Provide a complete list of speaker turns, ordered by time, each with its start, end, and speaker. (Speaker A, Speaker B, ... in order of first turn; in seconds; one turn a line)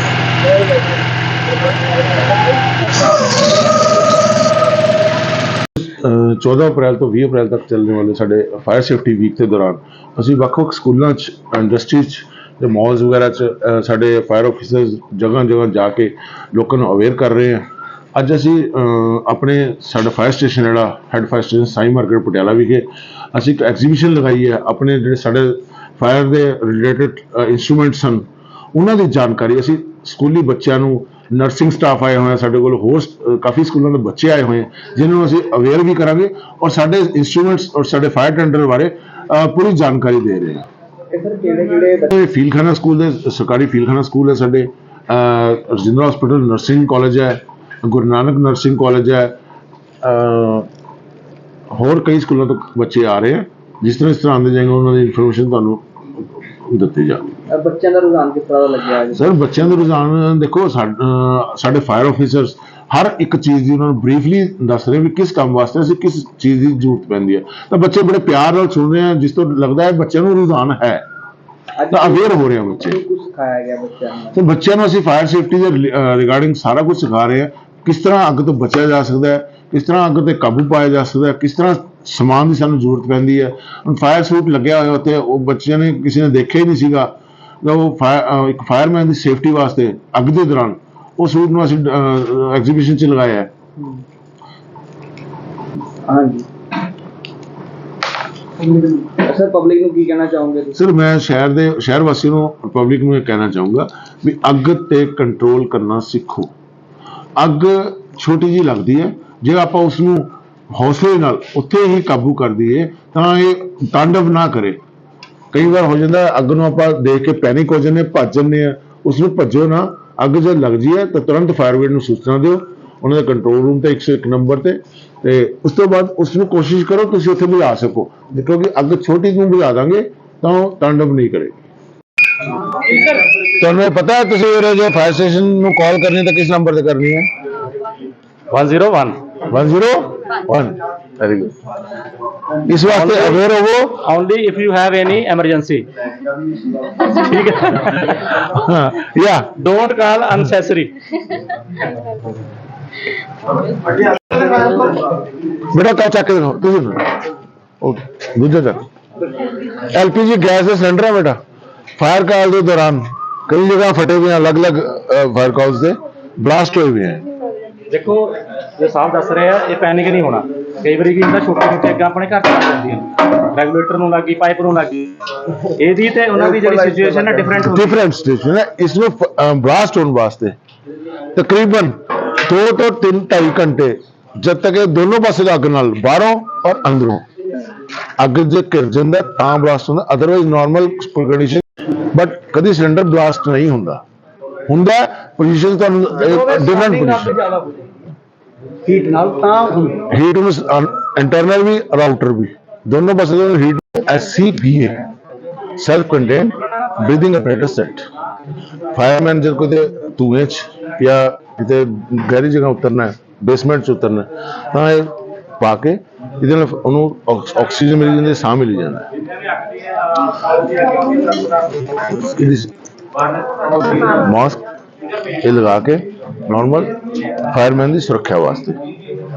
Speaker A: 5.8-40.7
Speaker B: 41.1-42.1
Speaker A: 42.1-49.3
Speaker A: 50.0-50.7
Speaker A: 51.7-57.4
Speaker B: 57.5-59.7
Speaker A: 59.1-71.0
Speaker B: 71.8-74.4
Speaker A: 71.9-73.0
Speaker A: 74.3-93.5
Speaker B: 96.1-96.5
Speaker B: 98.6-100.8
Speaker A: 100.7-106.5
Speaker A: 107.4-114.8
Speaker A: 115.5-131.6
Speaker A: 133.6-137.3
Speaker C: 138.5-139.3
Speaker A: 139.4-141.6
Speaker A: 142.7-144.0
Speaker C: 142.9-143.4
Speaker C: 144.0-145.9
Speaker C: 146.9-148.4
Speaker A: 148.5-149.6
Speaker C: 149.5-150.9
Speaker A: 155.7-157.2
Speaker A: 157.8-158.9
Speaker A: 159.7-161.4
Speaker A: 162.0-167.2
Speaker C: 167.9-178.0
Speaker B: 176.3-177.6
Speaker A: 177.6-180.6
Speaker A: 181.3-187.2
Speaker A: 188.2-194.0
Speaker A: 194.7-197.3
Speaker B: 196.1-197.9
Speaker B: 198.8-200.0
Speaker A: 200.1-205.1
Speaker A: 205.8-208.1
Speaker A: 208.9-219.1
Speaker A: 221.8-222.7
Speaker A: 223.5-224.6
Speaker A: 225.3-228.8